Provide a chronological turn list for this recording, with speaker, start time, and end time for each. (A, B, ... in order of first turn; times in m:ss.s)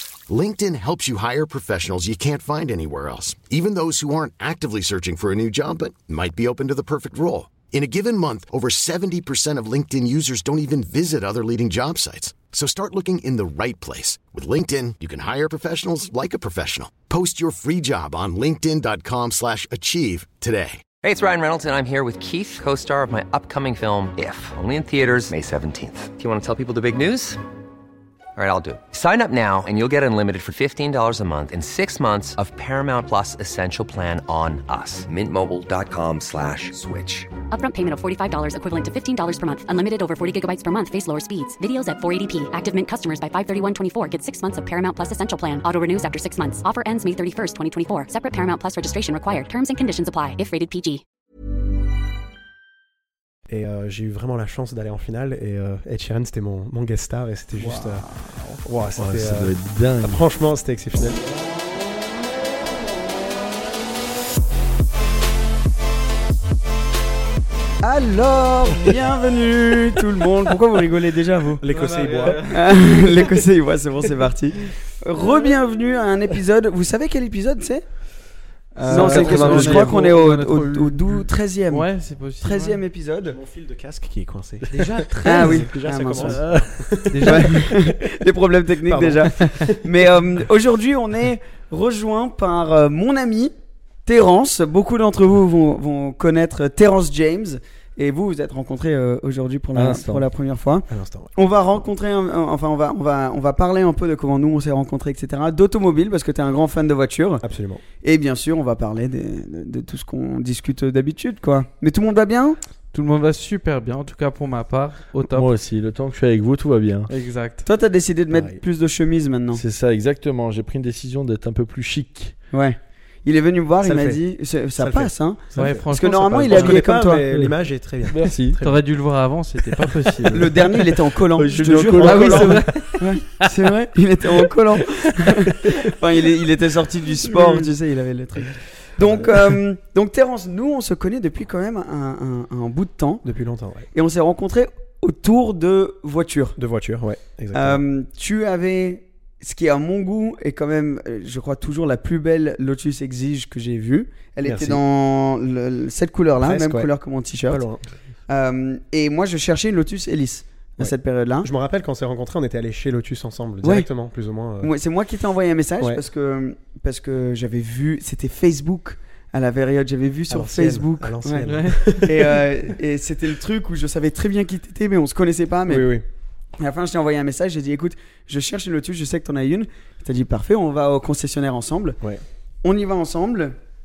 0:00.3-0:20.8 A
0:21.0-0:27.4 B
0:28.4-0:37.3 B
0:37.5-0:51.0 C
0:53.5-0:58.0 D
0:57.6-0:58.5 E
0:58.6-1:01.2 D
0:59.0-1:00.2 F
1:07.8-1:11.6 E
1:11.6-1:12.5 D
1:11.7-1:13.0 G
1:12.4-1:17.8 E
1:18.7-1:22.8 G
1:18.8-1:19.9 D
1:18.9-1:21.8 E
1:18.9-1:19.9 F
1:22.4-1:23.4 E
1:23.2-1:27.9 D
1:24.7-1:25.6 G
1:25.2-1:26.4 E
1:27.0-1:27.7 G
1:27.2-1:33.5 E
1:28.8-1:30.0 D
1:34.0-1:47.4 E
1:39.7-1:40.2 F
1:40.9-1:41.3 D
1:47.4-1:47.8 D
1:48.0-1:52.6 E
1:52.9-1:55.5 G
1:55.3-1:57.1 F
1:57.1-1:57.6 G
1:57.6-1:59.6 E
1:58.3-1:58.6 D
1:59.5-2:02.4 F
2:02.5-2:07.2 E
2:03.8-2:04.2 D
2:04.7-2:05.8 D
2:05.6-2:06.8 G
2:06.4-2:08.8 D
2:07.2-2:07.5 F
2:08.1-2:08.6 F
2:08.6-2:10.5 G
2:10.3-2:23.2 E
2:11.4-2:12.8 F
2:11.5-2:12.7 D
2:12.0-2:13.0 G
2:19.0-2:19.3 D
2:23.2-2:23.9 D
2:23.9-2:26.6 E
2:26.6-2:27.8 D
2:27.5-2:37.6 E
2:34.4-2:34.8 D
2:36.4-2:36.9 D
2:37.5-2:37.8 D
2:38.3-2:41.5 E
2:40.8-2:44.7 D
2:43.6-2:43.9 E
2:44.6-2:55.9 E
2:50.3-2:52.7 D
2:51.4-2:51.9 G
2:55.7-2:56.0 D
2:56.6-3:02.0 E
3:02.6-3:03.6 E